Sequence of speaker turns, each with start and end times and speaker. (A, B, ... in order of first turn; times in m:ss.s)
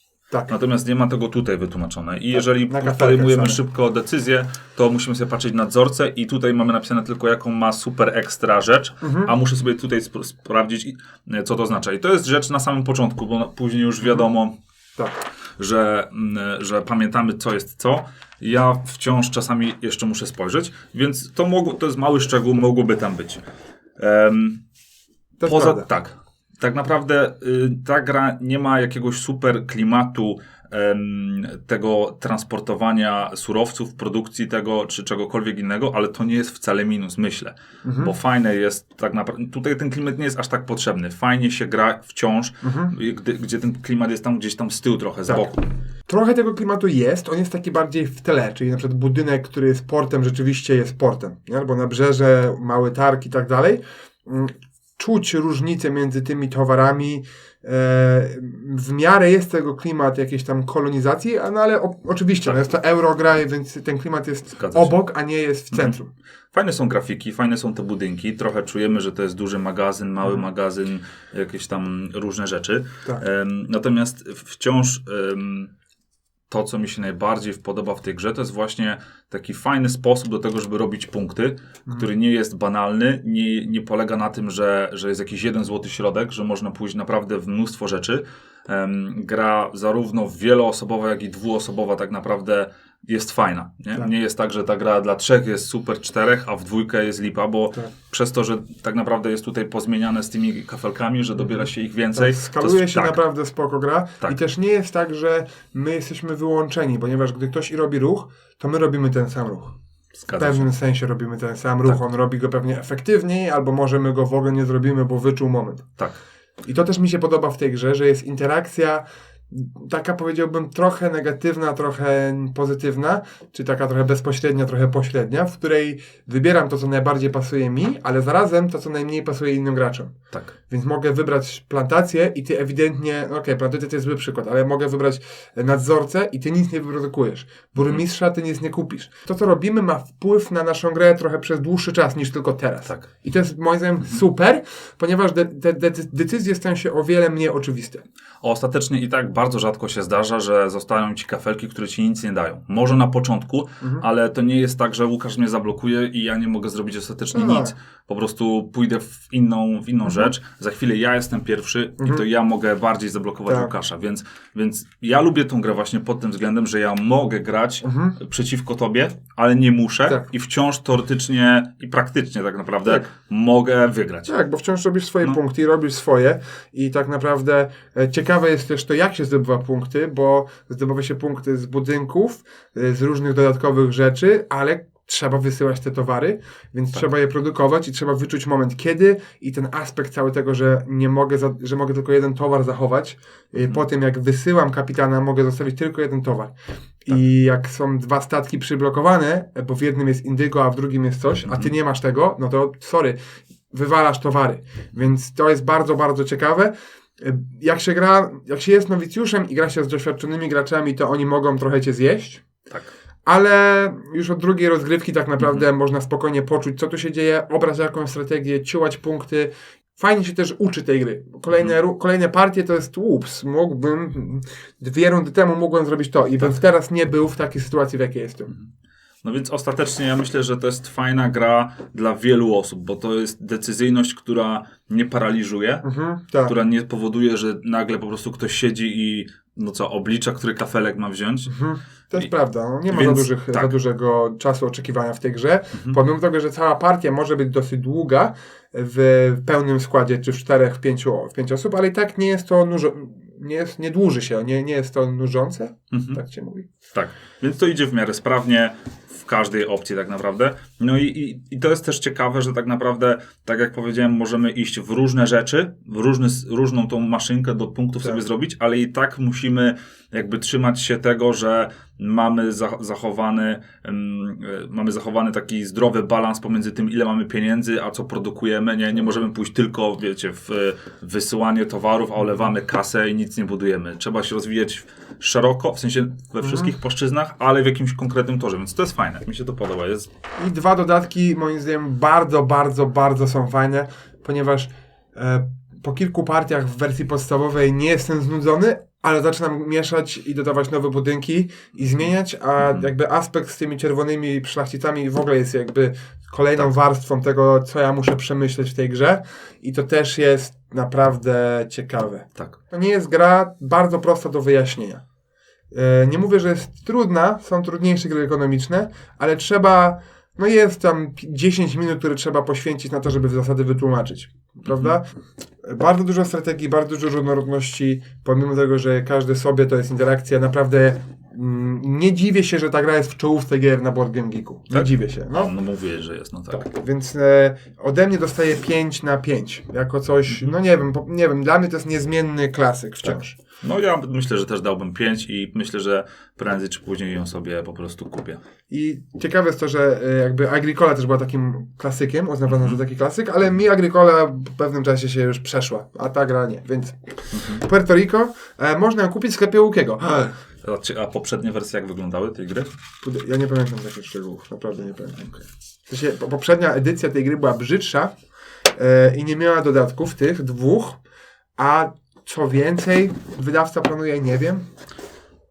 0:00.5-0:14.5 A
0:02.3-0:03.6 B
0:09.0-0:09.3 B
0:15.6-0:23.4 A
0:24.0-0:24.6 A
0:25.4-0:25.9 B
0:25.4-0:45.6 A
0:37.8-0:38.1 B
0:42.6-0:42.9 B
0:45.3-0:45.6 B
0:46.1-1:06.1 B
1:04.6-1:04.9 A
1:05.7-1:06.0 A
1:06.5-1:15.7 A
1:16.5-1:43.2 A
1:41.4-1:49.8 B
1:50.1-1:50.7 A
1:50.3-1:55.9 B
1:56.6-2:10.1 B
2:10.7-2:28.0 B
2:17.8-2:18.0 A
2:28.4-2:54.3 A
2:37.3-2:37.7 B
2:43.5-2:43.7 B
2:47.8-2:48.2 B
2:54.2-3:16.5 B
3:13.6-3:13.8 A
3:17.0-3:23.2 B
3:21.4-3:21.7 A
3:23.7-3:32.4 B
3:33.2-3:48.5 B
3:49.2-3:55.8 A
3:55.8-3:56.5 B
3:56.4-4:01.5 A
4:01.5-4:16.7 B
4:02.9-4:03.7 A
4:15.9-4:16.2 A
4:16.9-4:50.1 A
4:46.4-4:46.7 B
4:50.4-5:15.0 B
5:02.6-5:02.9 A
5:15.7-5:25.0 B
5:25.6-5:35.5 B
5:34.7-5:36.6 A
5:36.5-5:43.4 B
5:43.0-5:48.4 A
5:48.7-6:00.3 B
5:52.5-5:52.8 A
5:57.3-5:57.6 A
6:00.6-6:02.7 A
6:03.0-6:05.3 B
6:05.9-6:08.1 B
6:08.7-6:11.0 B
6:11.6-6:14.6 B